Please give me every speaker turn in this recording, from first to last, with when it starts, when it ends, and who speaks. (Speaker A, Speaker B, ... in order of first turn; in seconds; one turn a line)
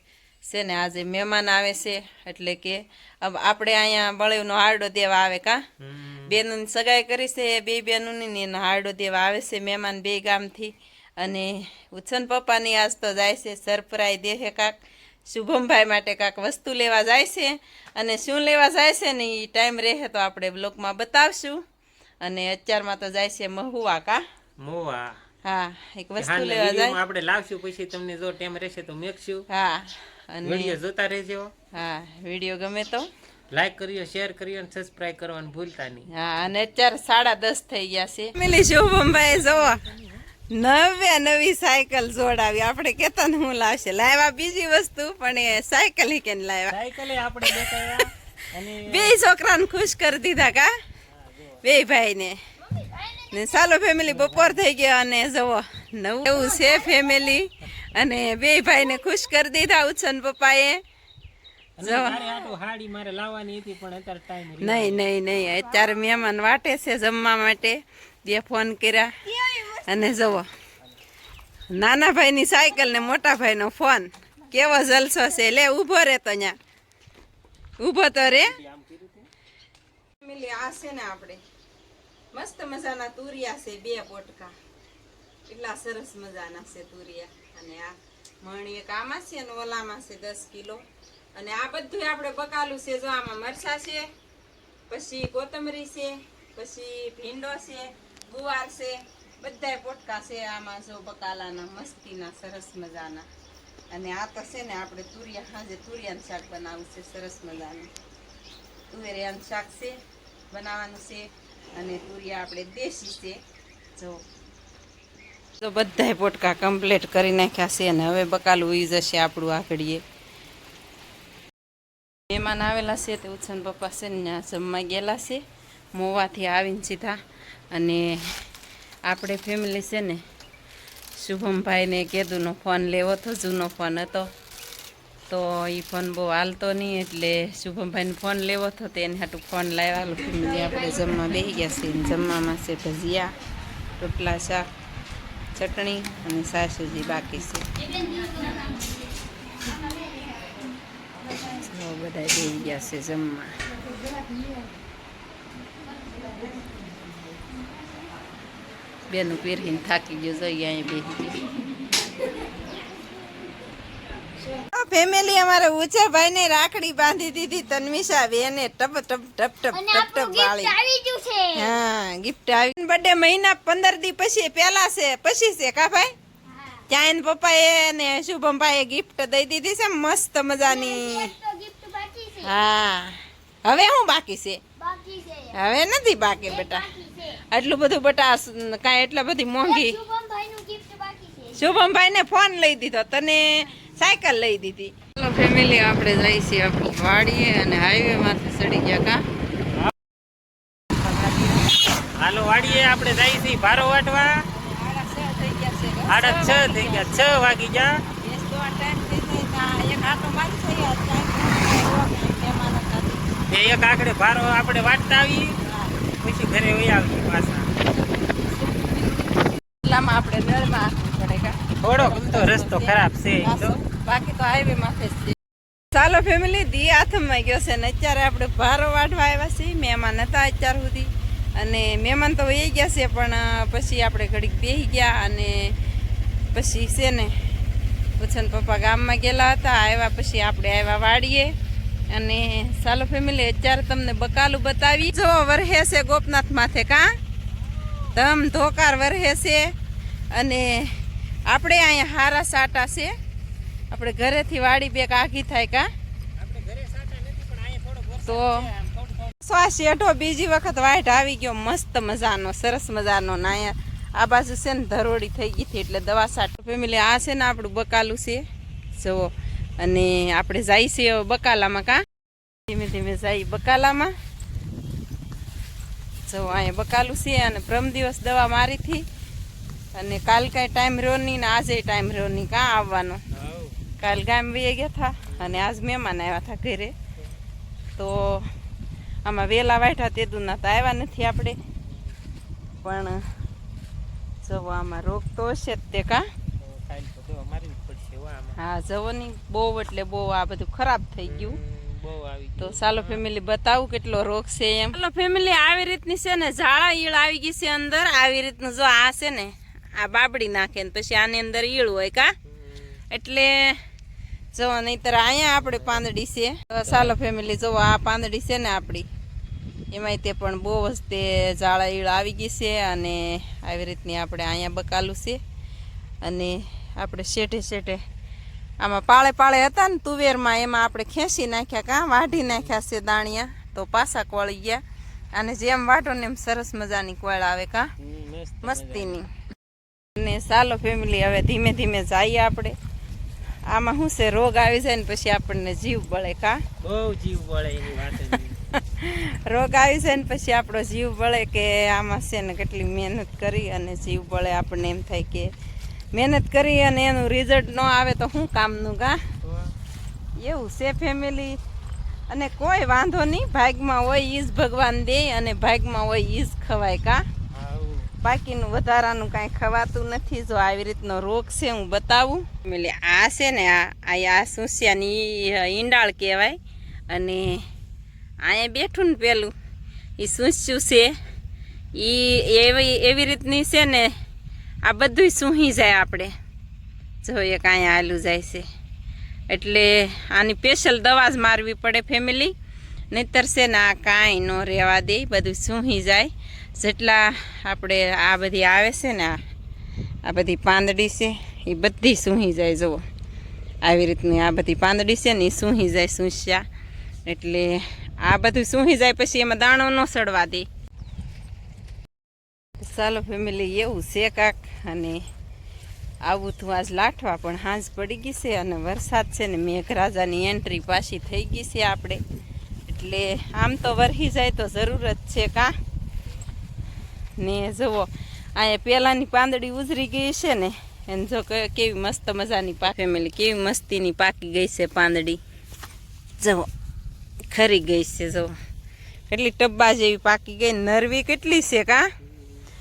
Speaker A: 0.5-5.6
Speaker B: 5.8-6.4
Speaker A: 6.2-14.7
Speaker A: 15.3-21.6
Speaker A: 22.2-24.2
Speaker B: 24.6-25.2
Speaker A: 25.4-27.0
Speaker B: 26.2-29.4
Speaker A: 29.5-30.8
Speaker B: 30.4-31.5
Speaker A: 31.7-33.1
Speaker B: 33.5-36.1
Speaker A: 36.1-39.8
Speaker B: 38.5-40.2
Speaker A: 40.5-46.7
Speaker B: 46.7-49.2
Speaker A: 47.4-48.0
Speaker A: 48.8-50.7
Speaker B: 51.1-51.8
Speaker A: 51.6-52.4
Speaker C: 52.6-53.9
Speaker A: 53.3-60.8
Speaker B: 54.0-54.6
Speaker C: 56.3-57.1
Speaker B: 61.8-65.1
Speaker A: 61.8-62.2
Speaker A: 64.6-70.5
Speaker A: 71.7-76.5
Speaker A: 77.8-78.5
Speaker B: 78.2-79.3
Speaker A: 80.2-81.4
Speaker A: 82.3-84.5
Speaker A: 85.5-90.8
Speaker A: 91.3-94.1
Speaker A: 94.9-103.2
Speaker A: 103.9-107.9
Speaker A: 108.9-109.9
Speaker A: 110.5-113.4
Speaker A: 115.6-120.0
Speaker A: 122.3-125.4
Speaker A: 125.9-127.2
Speaker A: 127.7-128.4
Speaker A: 129.1-130.2
Speaker A: 131.2-134.3
Speaker A: 135.3-143.3
Speaker A: 144.0-144.7
Speaker A: 145.5-147.7
Speaker C: 148.1-148.6
Speaker A: 151.4-153.6
Speaker A: 159.1-161.4
Speaker A: 164.7-170.8
Speaker C: 169.7-171.8
Speaker A: 171.5-176.1
Speaker C: 176.5-176.8
Speaker A: 176.9-181.3
Speaker C: 180.6-182.5
Speaker A: 182.4-184.6
Speaker C: 184.8-185.6
Speaker A: 185.5-186.9
Speaker C: 186.4-187.4
Speaker A: 187.5-190.0
Speaker C: 189.6-191.6
Speaker A: 191.5-199.2
Speaker A: 201.0-201.8
Speaker B: 202.2-204.4
Speaker A: 202.4-202.9
Speaker A: 204.5-213.2
Speaker B: 206.1-207.9
Speaker B: 213.5-215.6
Speaker A: 215.6-215.9
Speaker B: 216.2-217.7
Speaker A: 217.9-225.3
Speaker B: 221.8-223.8
Speaker A: 225.9-235.7
Speaker A: 236.5-237.3
Speaker A: 238.2-241.5
Speaker A: 242.1-247.1
Speaker B: 247.8-248.1
Speaker A: 248.1-249.7
Speaker A: 250.3-253.1
Speaker A: 253.9-255.9
Speaker B: 256.4-259.4
Speaker A: 258.2-258.6
Speaker A: 259.4-268.4
Speaker A: 268.9-269.3
Speaker A: 269.8-272.0
Speaker A: 272.7-274.1
Speaker A: 276.2-279.0
Speaker A: 279.9-283.2
Speaker B: 283.3-283.8
Speaker A: 284.0-286.9
Speaker B: 285.3-285.6
Speaker A: 288.0-288.5
Speaker A: 289.2-291.6
Speaker B: 291.9-292.1
Speaker A: 292.8-293.2
Speaker A: 294.4-296.2
Speaker B: 296.6-298.6
Speaker A: 298.6-301.6
Speaker B: 301.2-303.2
Speaker A: 302.6-312.3
Speaker B: 312.5-313.0
Speaker A: 313.1-313.8
Speaker A: 314.5-319.1
Speaker B: 315.6-316.1
Speaker B: 316.8-317.1
Speaker A: 319.9-325.4
Speaker A: 326.2-328.0
Speaker A: 328.8-334.8
Speaker B: 332.3-332.7
Speaker A: 335.3-337.9
Speaker B: 338.0-339.2
Speaker A: 338.6-339.3
Speaker A: 340.1-342.8
Speaker A: 343.7-346.6
Speaker B: 346.8-348.6
Speaker A: 348.7-355.5
Speaker A: 356.1-359.2
Speaker B: 359.4-359.7
Speaker A: 360.4-361.6
Speaker A: 362.3-367.2
Speaker B: 367.5-368.1
Speaker A: 368.2-376.6
Speaker A: 377.1-377.6
Speaker A: 378.4-379.5
Speaker A: 380.2-381.1
Speaker A: 382.0-384.1
Speaker A: 384.9-386.3
Speaker A: 387.2-388.6
Speaker A: 389.5-392.5
Speaker A: 393.1-399.4
Speaker A: 400.3-403.0
Speaker A: 403.8-406.6
Speaker A: 407.3-410.6
Speaker A: 412.8-415.2
Speaker A: 416.3-422.2
Speaker A: 422.9-425.7
Speaker A: 427.4-435.4
Speaker A: 436.4-436.7
Speaker A: 437.4-438.5
Speaker A: 439.3-442.1